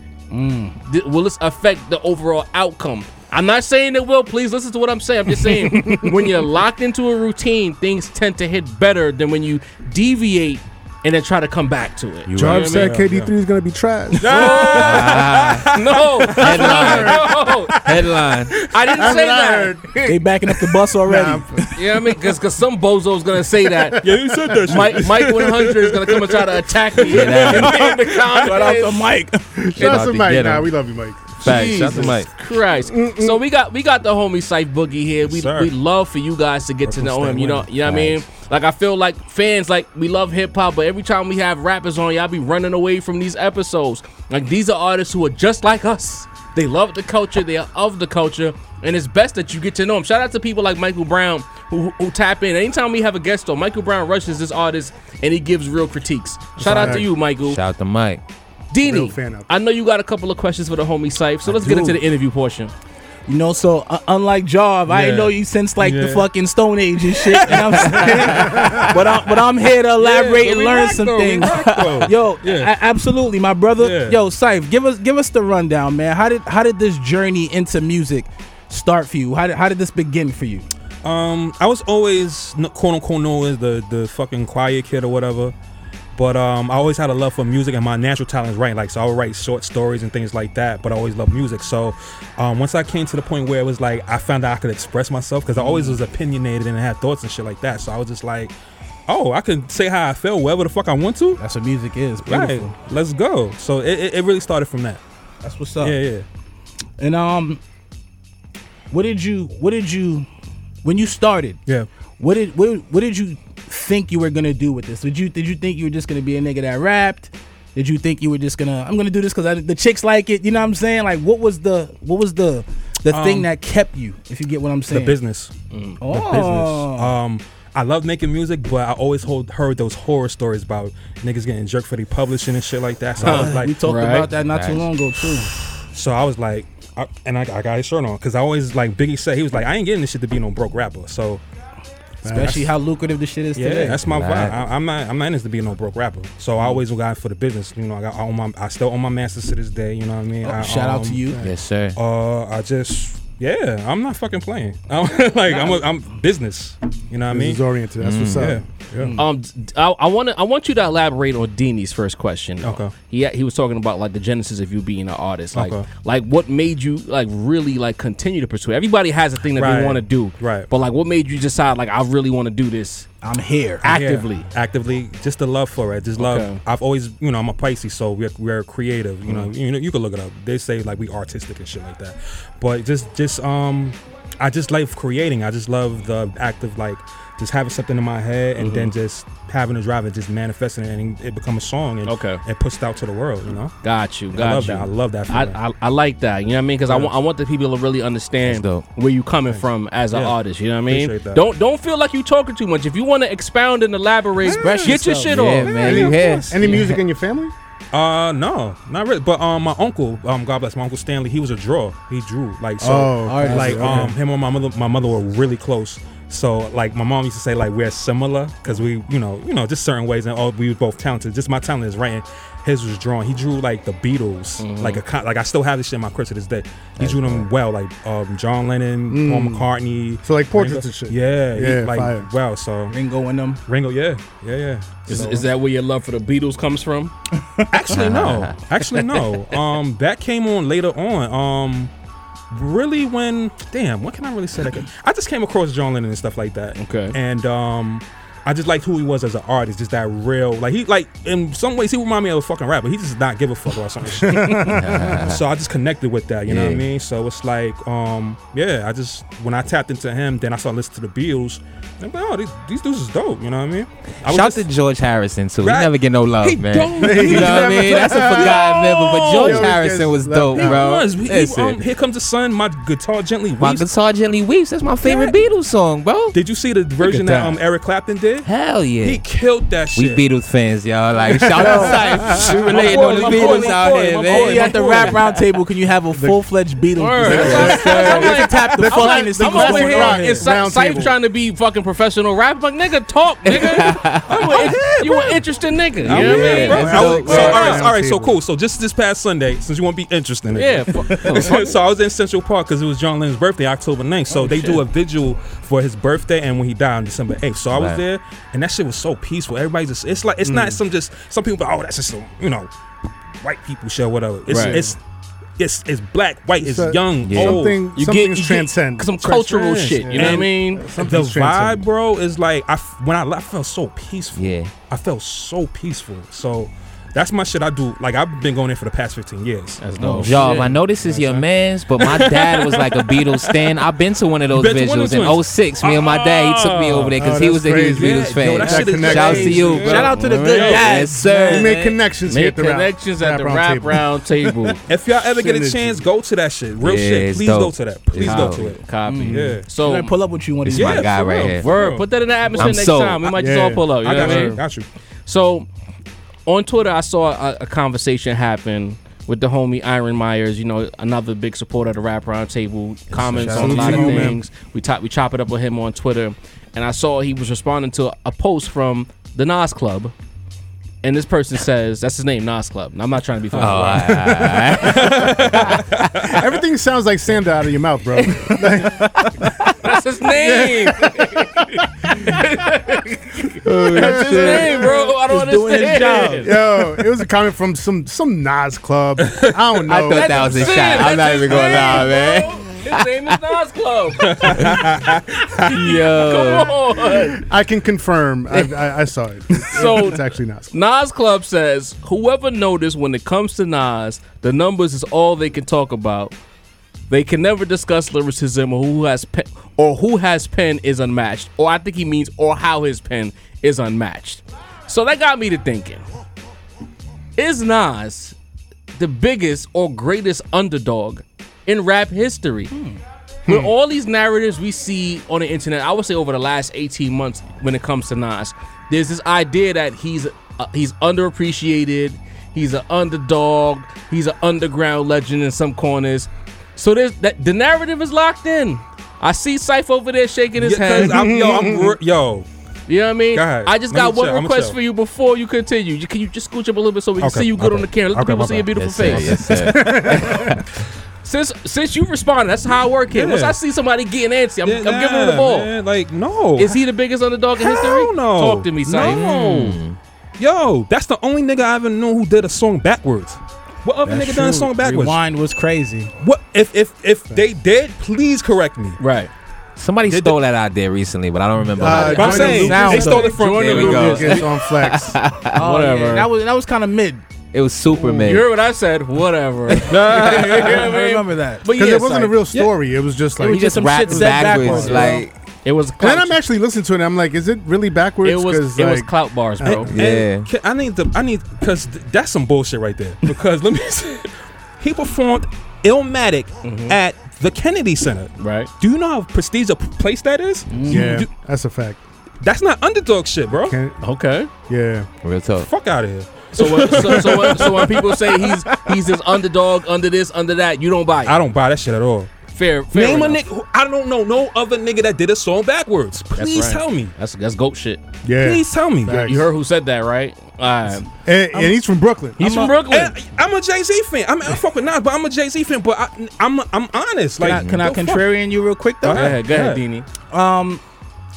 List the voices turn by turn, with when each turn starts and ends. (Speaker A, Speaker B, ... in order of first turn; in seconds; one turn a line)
Speaker A: 0.3-0.8
Speaker B: 0.8-12.9
Speaker C: 5.5-6.3
Speaker D: 12.3-12.7
Speaker C: 12.3-14.8
Speaker E: 12.4-13.3
Speaker E: 14.2-16.6
Speaker B: 14.2-17.9
Speaker D: 14.7-15.7
Speaker D: 16.3-17.2
Speaker C: 16.4-17.4
Speaker D: 17.8-18.6
Speaker B: 18.6-20.1
Speaker C: 18.9-20.1
Speaker A: 20.1-21.7
Speaker C: 21.0-21.6
Speaker B: 21.8-24.1
Speaker E: 24.0-28.3
Speaker C: 24.0-24.7
Speaker B: 24.6-29.1
Speaker D: 27.1-27.9
Speaker A: 28.4-29.6
Speaker C: 29.6-32.1
Speaker D: 29.8-30.7
Speaker B: 29.8-30.0
Speaker D: 31.4-32.3
Speaker B: 31.4-57.6
Speaker C: 32.8-33.4
Speaker E: 35.2-35.7
Speaker E: 36.8-37.7
Speaker D: 37.8-38.2
Speaker E: 56.6-57.0
Speaker C: 56.6-57.1
Speaker D: 56.8-58.2
Speaker B: 58.7-62.7
Speaker C: 58.8-59.5
Speaker C: 61.6-62.0
Speaker A: 63.3-80.7
Speaker E: 64.9-66.3
Speaker E: 67.2-68.8
Speaker C: 68.2-69.0
Speaker E: 70.0-72.7
Speaker E: 73.8-74.2
Speaker E: 81.0-85.5
Speaker E: 86.1-98.5
Speaker A: 95.6-96.0
Speaker E: 99.1-101.4
Speaker A: 101.4-102.7
Speaker E: 102.2-105.0
Speaker A: 105.4-106.0
Speaker E: 105.8-106.2
Speaker A: 107.0-107.6
Speaker A: 108.9-110.3
Speaker A: 110.8-111.6
Speaker A: 112.2-125.2
Speaker E: 123.1-123.5
Speaker E: 124.9-125.5
Speaker B: 125.7-126.0
Speaker A: 126.0-127.2
Speaker E: 126.1-133.8
Speaker A: 133.2-135.5
Speaker B: 133.2-134.3
Speaker D: 134.4-134.9
Speaker E: 135.9-141.4
Speaker C: 142.2-142.6
Speaker A: 142.2-144.4
Speaker E: 142.4-142.7
Speaker E: 143.5-151.3
Speaker D: 144.2-144.5
Speaker A: 150.4-151.4
Speaker D: 151.4-152.0
Speaker E: 151.9-157.6
Speaker C: 157.3-159.1
Speaker D: 158.0-158.6
Speaker E: 158.3-158.6
Speaker B: 159.2-173.1
Speaker E: 162.6-162.9
Speaker E: 165.5-165.8
Speaker E: 169.5-170.7
Speaker A: 173.2-173.9
Speaker B: 173.8-174.5
Speaker E: 173.8-193.7
Speaker B: 176.2-176.6
Speaker B: 188.6-188.9
Speaker B: 192.1-192.4
Speaker B: 193.8-205.7
Speaker E: 194.3-195.6
Speaker D: 198.4-198.8
Speaker E: 200.9-201.4
Speaker E: 204.4-205.0
Speaker A: 204.4-205.5
Speaker D: 205.3-207.0
Speaker E: 205.6-206.9
Speaker C: 205.8-207.5
Speaker E: 207.9-233.0
Speaker C: 212.8-214.2
Speaker A: 213.2-214.1
Speaker B: 224.6-225.0
Speaker D: 227.0-227.5
Speaker C: 229.1-229.7
Speaker C: 230.2-232.3
Speaker A: 232.9-233.6
Speaker E: 233.7-235.4
Speaker B: 235.1-237.1
Speaker E: 237.7-241.9
Speaker D: 237.9-238.6
Speaker B: 238.8-239.2
Speaker E: 242.5-264.7
Speaker B: 246.8-247.2
Speaker C: 254.2-255.2
Speaker D: 254.7-255.4
Speaker D: 256.5-256.8
Speaker D: 264.2-271.8
Speaker E: 265.6-269.8
Speaker C: 267.0-270.9
Speaker E: 270.5-273.9
Speaker D: 273.6-276.4
Speaker E: 275.0-275.4
Speaker E: 276.3-278.5
Speaker D: 278.4-279.2
Speaker E: 279.0-280.2
Speaker D: 279.9-285.1
Speaker E: 281.4-285.2
Speaker A: 281.5-282.0
Speaker C: 281.6-281.9
Speaker A: 282.8-290.5
Speaker C: 286.1-286.4
Speaker B: 287.0-297.8
Speaker C: 287.2-291.1
Speaker D: 287.3-288.2
Speaker D: 293.5-295.3
Speaker E: 294.3-294.9
Speaker D: 296.0-297.8
Speaker E: 296.0-312.7
Speaker C: 296.3-298.4
Speaker B: 300.5-301.8
Speaker D: 301.2-301.6
Speaker B: 304.4-304.8
Speaker D: 307.7-308.0
Speaker C: 310.4-310.8
Speaker E: 313.4-315.0
Speaker B: 314.5-314.8
Speaker C: 314.5-314.9
Speaker E: 315.6-317.8
Speaker C: 316.6-319.2
Speaker D: 317.2-317.7
Speaker B: 317.9-320.9
Speaker E: 319.2-324.4
Speaker C: 320.0-321.9
Speaker D: 324.3-324.7
Speaker E: 324.9-329.8
Speaker B: 329.8-330.7
Speaker A: 330.0-330.7
Speaker D: 330.2-342.0
Speaker E: 331.0-331.4
Speaker E: 332.0-333.8
Speaker E: 334.5-337.2
Speaker C: 337.1-339.7
Speaker E: 337.9-341.0
Speaker A: 338.6-341.7
Speaker B: 340.2-340.4
Speaker C: 341.5-346.0
Speaker B: 342.2-344.8
Speaker E: 344.9-349.6
Speaker D: 346.8-348.7
Speaker B: 348.2-350.1
Speaker A: 349.0-351.1
Speaker D: 350.6-351.7
Speaker E: 350.7-352.1
Speaker B: 351.6-354.6
Speaker D: 352.6-353.3
Speaker C: 353.4-354.6
Speaker E: 353.9-354.9
Speaker B: 355.2-355.7
Speaker B: 356.4-370.1
Speaker D: 363.1-364.3
Speaker A: 363.4-364.3
Speaker C: 363.6-364.4
Speaker B: 371.0-374.2
Speaker D: 373.5-375.9
Speaker E: 373.5-376.5
Speaker C: 374.3-374.9
Speaker C: 376.2-379.7
Speaker B: 379.8-386.5
Speaker C: 380.2-382.3
Speaker A: 383.6-386.5
Speaker C: 383.6-384.9
Speaker D: 383.7-384.5
Speaker C: 386.4-391.1
Speaker E: 389.3-389.6
Speaker D: 389.9-393.4
Speaker B: 390.1-394.8
Speaker E: 394.2-395.9
Speaker D: 394.6-394.9
Speaker D: 395.6-396.7
Speaker B: 395.6-397.4
Speaker C: 397.4-400.7
Speaker B: 399.7-406.3
Speaker B: 407.1-416.0
Speaker B: 417.4-418.3
Speaker B: 419.0-422.7
Speaker A: 422.7-423.0
Speaker B: 423.4-441.2
Speaker E: 440.6-442.4
Speaker C: 441.0-441.9
Speaker B: 442.9-449.9
Speaker E: 443.3-444.8
Speaker E: 447.2-449.3
Speaker D: 448.7-450.6
Speaker C: 449.5-450.6
Speaker B: 451.2-455.7
Speaker E: 453.1-453.6
Speaker E: 454.6-456.8
Speaker B: 456.6-459.3
Speaker E: 457.6-459.8
Speaker D: 459.0-460.0
Speaker E: 460.4-465.2
Speaker A: 464.0-466.1
Speaker E: 466.2-469.0
Speaker B: 469.0-469.3
Speaker D: 469.8-475.6
Speaker E: 470.1-470.4
Speaker C: 471.8-475.2
Speaker E: 471.9-474.0
Speaker A: 472.3-473.0
Speaker B: 472.8-474.5
Speaker A: 475.5-477.2
Speaker B: 475.5-476.3
Speaker D: 477.5-478.4
Speaker B: 478.1-482.4
Speaker D: 479.7-480.1
Speaker E: 479.9-480.9
Speaker A: 480.1-481.6
Speaker C: 481.7-485.2
Speaker A: 483.4-485.2
Speaker D: 483.4-485.3
Speaker B: 485.6-486.4
Speaker C: 486.0-489.1
Speaker B: 488.2-489.9
Speaker C: 489.6-489.9
Speaker E: 489.6-501.3
Speaker D: 489.9-490.5
Speaker B: 496.6-497.0
Speaker B: 498.4-498.7
Speaker A: 500.7-501.1
Speaker C: 500.9-502.0
Speaker E: 502.4-503.8
Speaker C: 503.5-504.0
Speaker B: 504.0-504.5
Speaker C: 504.7-505.1
Speaker D: 505.2-505.7
Speaker E: 505.6-508.7
Speaker B: 506.5-511.4
Speaker E: 511.2-512.3
Speaker B: 512.5-513.4
Speaker E: 512.9-517.1
Speaker B: 516.3-518.0
Speaker C: 518.2-519.5
Speaker E: 518.4-519.2
Speaker B: 519.1-521.1
Speaker C: 521.2-522.7
Speaker B: 522.4-523.2
Speaker E: 522.8-528.2
Speaker A: 527.4-529.4
Speaker E: 529.0-529.8
Speaker B: 529.1-530.0
Speaker A: 530.3-530.8